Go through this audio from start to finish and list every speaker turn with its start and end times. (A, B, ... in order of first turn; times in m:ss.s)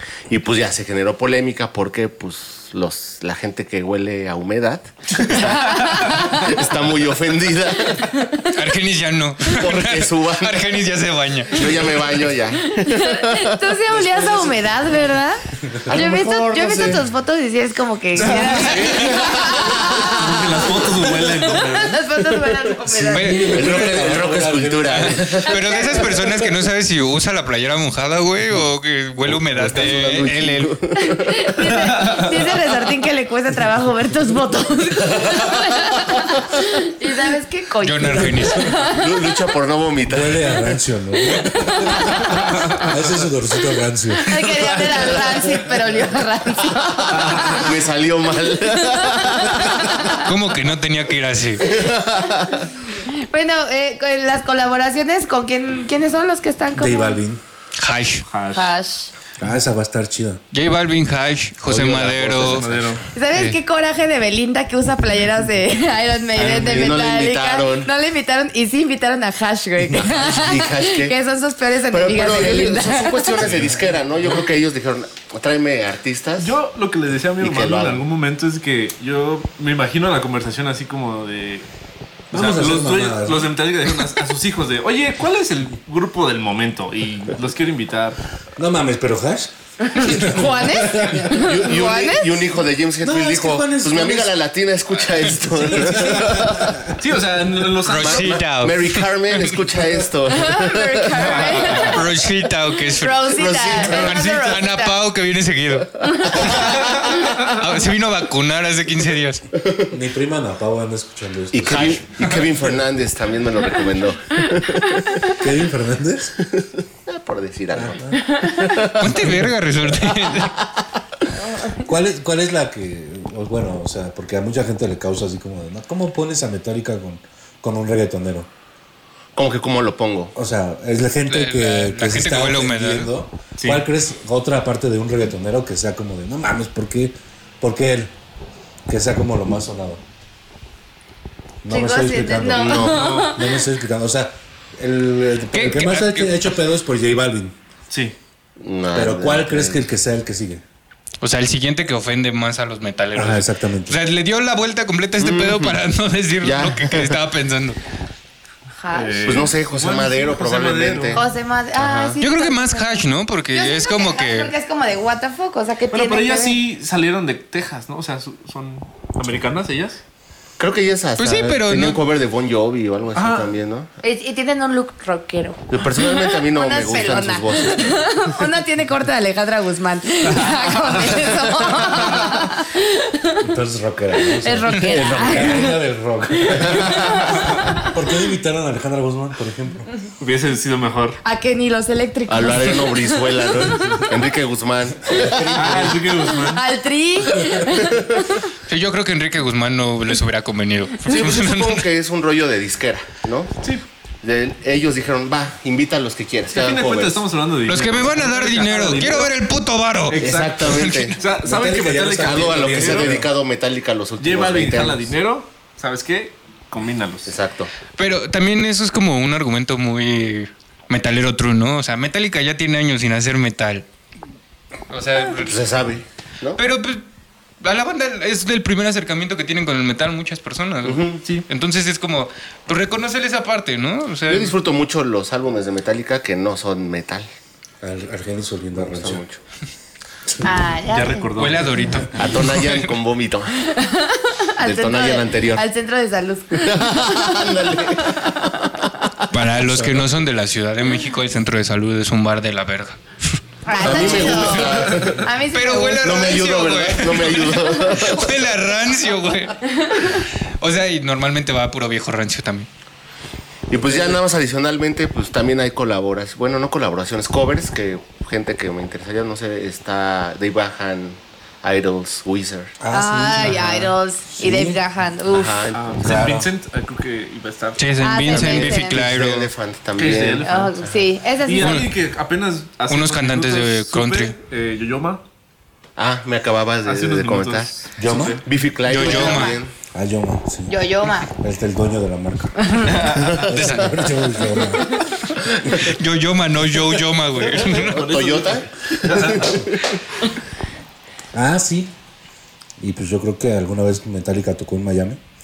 0:00.3-0:08.1 A
0:05.4-0:06.5 B
0:08.0-0:08.5 B
0:08.5-0:11.9 C
0:09.4-0:10.8 A
0:11.5-0:13.7 A
0:12.7-0:23.8 B
0:15.8-0:17.0 A
0:18.2-0:19.4 D
0:18.3-0:19.1 C
0:18.9-0:20.6 A
0:20.1-0:22.0 D
0:22.8-0:25.4 E
0:23.1-0:23.7 C
0:23.5-0:26.0 A
0:24.9-0:30.7 C
0:25.4-0:26.2 B
0:29.5-0:32.2 A
0:31.0-0:39.1 B
0:31.8-0:32.3 D
0:35.1-0:35.6 A
0:37.8-0:38.8 C
0:38.9-0:40.6 A
0:40.0-0:45.5 E
0:41.2-0:42.7 B
0:44.2-0:47.7 B
0:47.1-0:50.2 A
0:48.7-0:50.3 B
0:50.2-0:51.7 C
0:51.6-0:52.7 A
0:53.0-0:57.2 B
0:56.7-0:57.4 E
0:57.8-0:58.2 C
0:58.2-0:58.7 D
0:58.5-0:59.1 B
0:59.4-1:00.4 E
1:00.5-1:02.7 C
1:01.6-1:03.0 D
1:02.3-1:02.8 E
1:03.1-1:13.4 B
1:03.3-1:03.6 C
1:06.4-1:07.0 D
1:06.5-1:07.9 A
1:09.9-1:11.1 A
1:11.9-1:16.6 A
1:13.4-1:14.0 E
1:16.4-1:21.7 D
1:17.4-1:18.0 A
1:22.3-1:28.2 D
1:22.3-1:23.5 E
1:28.6-1:31.5 E
1:29.8-1:32.4 B
1:31.3-1:36.8 A
1:33.0-1:34.3 E
1:35.6-1:36.9 E
1:35.8-1:36.4 D
1:37.0-1:38.5 D
1:37.8-1:39.6 C
1:38.0-1:41.8 A
1:40.3-1:42.3 B
1:41.2-1:42.0 D
1:41.9-1:49.5 C
1:42.9-1:45.0 B
1:43.3-1:44.2 A
1:46.0-1:47.1 B
1:49.6-1:49.9 A
1:49.9-1:52.1 E
1:51.5-1:55.3 A
1:51.6-1:52.5 C
1:55.3-1:56.3 E
1:56.5-1:59.3 A
1:57.7-1:58.2 E
1:58.2-1:58.8 B
1:58.8-2:00.6 C
1:59.0-1:59.5 E
2:00.1-2:00.5 A
2:01.3-2:01.8 B
2:01.8-2:08.5 E
2:09.4-2:10.3 A
2:10.3-2:18.1 E
2:11.3-2:13.1 C
2:13.6-2:13.8 D
2:18.9-2:20.0 E
2:21.6-2:27.6 E
2:21.7-2:23.5 B
2:22.6-2:23.0 A
2:22.9-2:23.4 D
2:25.5-2:26.5 C
2:27.9-2:28.2 D
2:28.6-2:29.8 A
2:28.9-2:30.6 E
2:31.2-2:37.8 C
2:33.1-2:34.0 E
2:35.2-2:35.8 A
2:36.4-2:37.2 A
2:38.8-2:39.5 B
2:38.9-2:41.2 D
2:39.2-2:41.2 A
2:41.1-2:43.0 B
2:41.8-2:42.2 A
2:42.2-2:44.5 C
2:43.5-2:46.6 B
2:45.9-2:50.0 D
2:50.6-2:53.9 A
2:51.2-2:52.0 C
2:53.1-2:53.5 D
2:54.0-3:03.5 B
2:55.7-2:58.2 A
3:00.3-3:01.1 D
3:03.4-3:07.2 E
3:04.4-3:05.8 B
3:04.8-3:05.7 A
3:06.4-3:07.9 B
3:07.8-3:09.9 E
3:10.2-3:11.2 D
3:11.2-3:14.1 B
3:12.3-3:15.9 A
3:15.1-3:16.1 E
3:15.5-3:16.7 D
3:16.2-3:18.4 B
3:18.7-3:21.9 C
3:21.0-3:23.5 A
3:24.2-3:27.2 A
3:26.5-3:29.4 D
3:27.7-3:31.2 C
3:30.1-3:30.6 D
3:30.2-3:31.2 A
3:30.2-3:30.8 E
3:31.1-3:33.2 D
3:31.4-3:33.3 E
3:32.2-3:35.1 A
3:34.2-3:37.4 D
3:37.2-3:37.7 A
3:38.0-3:43.8 C
3:44.9-3:45.6 C
3:45.3-3:46.6 A
3:46.6-3:47.0 C
3:47.6-3:54.5 C
3:50.8-3:51.2 A
3:54.3-3:57.3 A
3:57.8-3:59.2 E
3:58.7-3:59.4 A
4:00.4-4:01.3 B
4:00.9-4:01.8 D
4:01.4-4:02.9 C
4:02.2-4:03.5 A
4:03.6-4:08.8 B
4:04.6-4:05.6 A
4:06.5-4:08.7 A
4:09.3-4:13.3 C
4:09.5-4:10.1 E
4:13.6-4:16.4 B
4:13.7-4:15.3 A
4:13.8-4:15.2 E
4:15.5-4:22.7 C
4:16.0-4:18.5 A
4:23.7-4:32.7 A
4:23.8-4:24.2 E
4:32.8-4:34.8 E
4:32.9-4:35.6 B
4:35.3-4:36.2 A
4:35.7-4:37.8 D
4:36.0-4:36.5 E
4:37.8-4:39.5 C
4:38.0-4:39.0 B
4:38.3-4:40.5 A
4:40.0-4:45.2 D
4:40.4-4:41.8 B
4:41.6-4:41.9 C
4:42.9-4:44.4 C
4:46.0-4:49.7 A
4:46.8-4:48.4 D
4:48.0-4:48.4 E
4:48.8-4:49.6 C
4:49.9-4:54.9 E
4:50.7-4:51.3 B
4:52.6-4:52.9 B
4:52.8-4:53.4 D
4:53.2-4:53.8 A
4:53.4-4:54.1 C
4:55.6-4:58.1 C
4:57.4-4:59.7 D
4:57.9-4:59.8 A
5:01.3-5:01.9 E
5:02.8-5:05.2 E